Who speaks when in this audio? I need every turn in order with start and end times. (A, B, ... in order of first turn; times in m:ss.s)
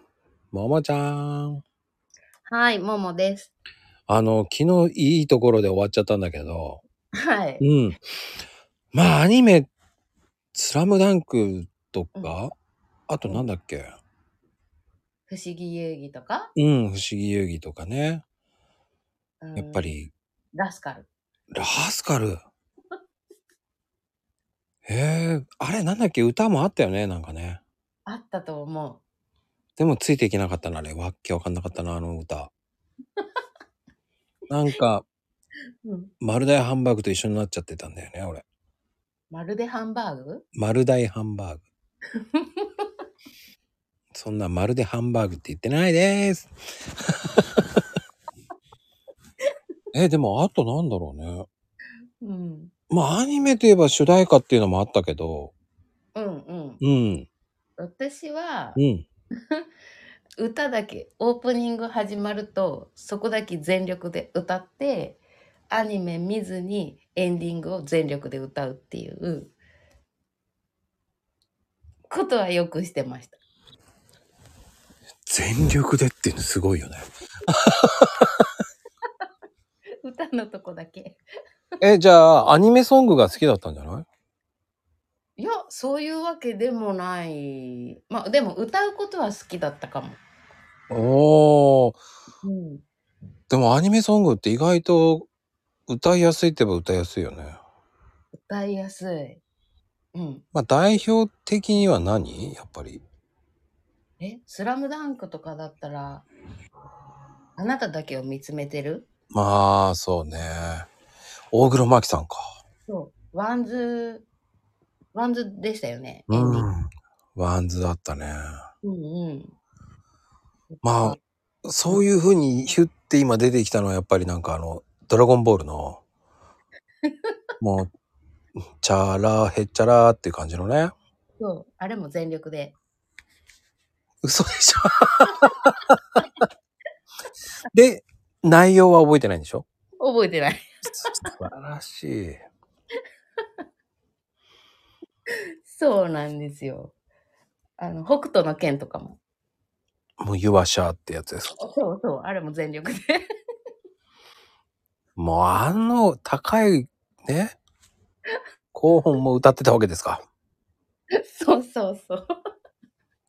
0:00.5-0:01.6 A
0:02.5-0:03.5 B
0:04.1-0:06.8 A
0:07.2-0:07.6 B
0:07.6-0:08.0 A
0:08.9-0:09.7 A
0:10.5-0:12.5 A
0:13.1-0:13.9 A
0:15.3-0:16.5 B
0:16.6-0:18.2 A
0:19.4-0:19.9 B
0:19.6-0:20.1 A
0:20.5-0:21.1 B
0:21.5-0:22.4 A
0:24.9-0:27.6 A
0:28.0-0:29.0 B
0:29.8-0:32.5 A
0:34.5-0:35.0 A
0:35.8-0:36.1 B
0:36.2-0:38.4 A
0:39.3-0:40.4 B
0:40.6-0:41.6 A
0:42.2-0:42.9 B
0:44.1-0:46.5 A
0:47.1-0:47.6 A
0:49.9-0:51.4 A
0:52.2-0:52.7 B
0:52.9-0:55.5 A
0:56.1-0:56.8 B
0:56.8-0:57.3 A
0:57.8-0:58.8 B
0:58.8-0:59.0 A
1:00.4-1:09.5 B
1:12.1-1:13.4 B
1:15.3-1:18.4 A
1:20.0-1:21.2 B
1:21.8-1:24.0 A
1:25.4-1:30.2 B
1:30.9-1:32.0 A
1:32.4-1:32.8 B
1:33.5-1:35.3 A
1:35.9-1:37.6 A
1:38.3-1:39.4 B
1:40.1-1:40.4 B
1:40.5-1:43.0 A
1:44.2-1:46.2 B
1:47.6-1:49.1 B
1:49.3-1:50.9 A
1:51.5-1:52.4 A
1:52.9-1:54.2 B
1:55.1-1:56.7 B
1:56.3-1:58.4 A
1:58.8-1:59.5 B
2:00.7-2:01.2 B
2:00.8-2:06.0 A
2:07.1-2:07.3 B
2:07.6-2:07.9 A
2:08.8-2:10.9 A
2:11.4-2:12.7 B
2:14.2-2:16.0 A
2:17.7-2:19.6 A
2:20.0-2:21.2 B
2:21.2-2:22.4 A
2:25.6-2:26.9 B
2:27.8-2:29.2 B
2:30.2-2:31.6 A
2:31.6-2:33.2 B
2:35.2-2:37.6 A
2:38.7-2:40.2 A
2:41.3-2:42.2 B